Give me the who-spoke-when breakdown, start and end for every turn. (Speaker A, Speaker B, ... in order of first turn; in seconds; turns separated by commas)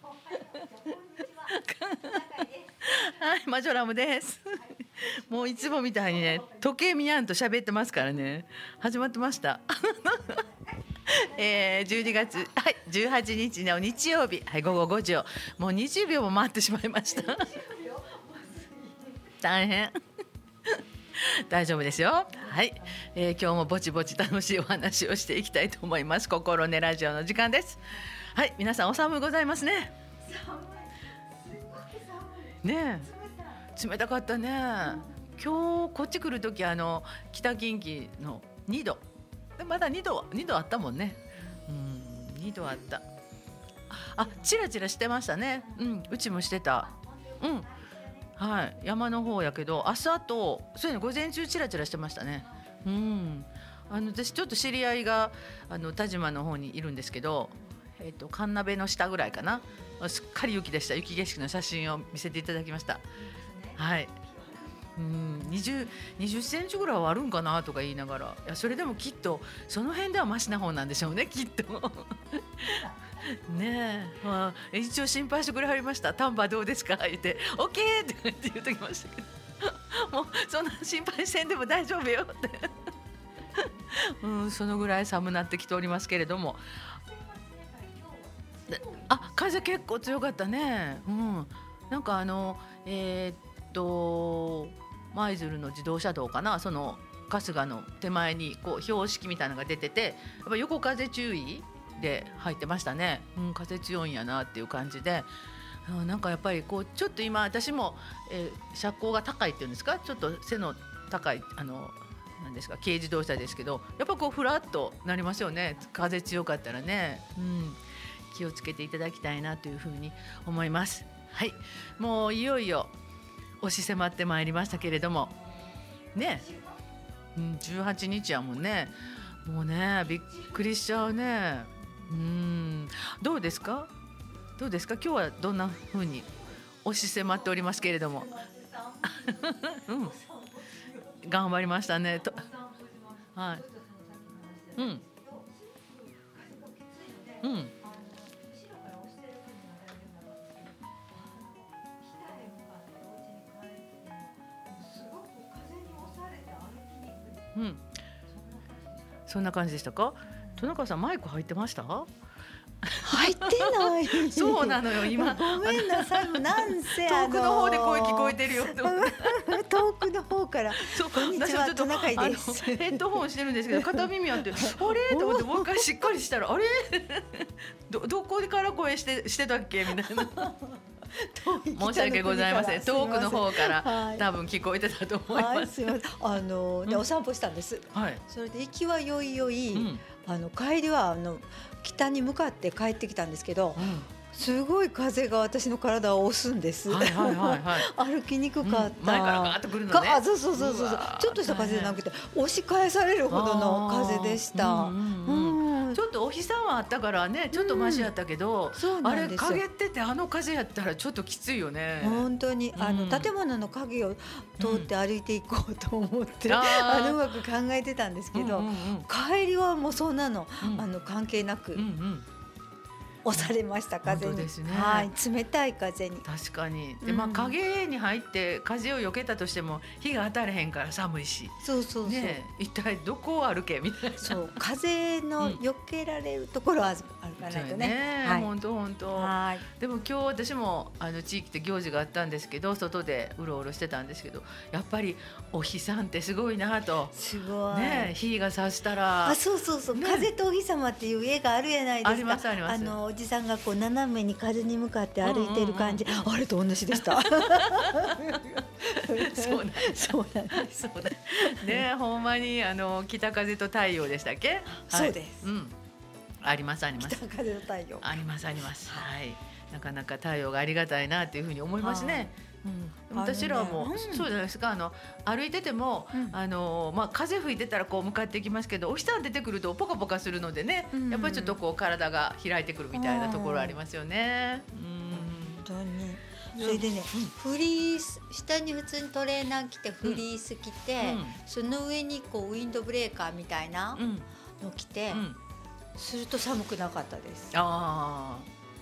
Speaker A: 0.1-3.2, Speaker B: 1.5-10.4, Speaker A: 5.0-6.6, Speaker B: 11.0-17.6, Speaker A: 17.2-19.2, Speaker B: 19.4-20.0, Speaker B: 20.7-29.9, Speaker A: 30.2-33.6, Speaker B: 32.6-33.1, Speaker B: 33.8-39.0, Speaker A: 34.8-35.1, Speaker B: 39.6-43.0, Speaker B: 43.9-47.7, Speaker B: 48.4-63.0, Speaker B: 63.8-64.2, Speaker B: 65.0-82.8, Speaker B: 83.5-87.0, Speaker A: 87.6-88.2, Speaker B: 88.7-105.3, Speaker A: 88.8-89.2, Speaker B: 105.8-122.9, Speaker B: 123.6-125.4, Speaker B: 126.1-126.5, Speaker B: 127.3-133.9, Speaker B: 134.6-136.3, Speaker B: 136.8-138.4, Speaker A: 137.4-141.2, Speaker B: 139.1-140.2, Speaker B: 141.2-142.5, Speaker A: 142.4-157.5, Speaker B: 143.3-143.7, Speaker B: 144.8-145.1, Speaker B: 147.4-147.8, Speaker B: 157.6-158.0, Speaker A: 158.4-158.8, Speaker B: 159.3-162.1, Speaker B: 162.8-169.7, Speaker A: 163.0-173.2, Speaker B: 170.8-180.5, Speaker A: 173.7-176.1, Speaker A: 180.0-184.3, Speaker B: 181.6-186.0, Speaker A: 185.3-206.0, Speaker B: 187.9-188.2, Speaker B: 189.7-190.0, Speaker B: 193.8-194.1, Speaker B: 196.9-197.9, Speaker B: 198.6-202.0, Speaker B: 203.3-213.3, Speaker A: 207.5-208.1, Speaker A: 208.8-209.6, Speaker A: 212.0-221.8, Speaker B: 214.6-214.9, Speaker B: 216.5-217.3, Speaker B: 218.3-219.1, Speaker B: 220.6-220.9, Speaker B: 221.8-222.3, Speaker A: 223.2-226.3, Speaker B: 224.0-225.1, Speaker B: 226.2-234.4, Speaker A: 227.0-227.6, Speaker A: 231.6-232.4, Speaker A: 234.2-238.5, Speaker B: 237.4-247.2, Speaker A: 239.1-239.7, Speaker A: 247.1-248.1, Speaker B: 247.7-249.4, Speaker A: 249.2-261.9, Speaker B: 249.9-250.3, Speaker B: 252.0-253.0, Speaker B: 255.2-256.2, Speaker B: 256.9-265.7, Speaker A: 264.8-265.4, Speaker B: 266.4-267.2, Speaker A: 267.0-268.2, Speaker B: 268.0-285.7, Speaker A: 271.8-272.3, Speaker A: 273.1-274.3, Speaker A: 280.9-281.6, Speaker A: 282.9-283.8, Speaker A: 285.1-294.0, Speaker B: 286.6-287.3, Speaker B: 291.0-291.4, Speaker B: 294.0-294.3, Speaker A: 294.6-295.2, Speaker B: 295.1-295.4, Speaker A: 296.0-297.5, Speaker B: 297.5-298.5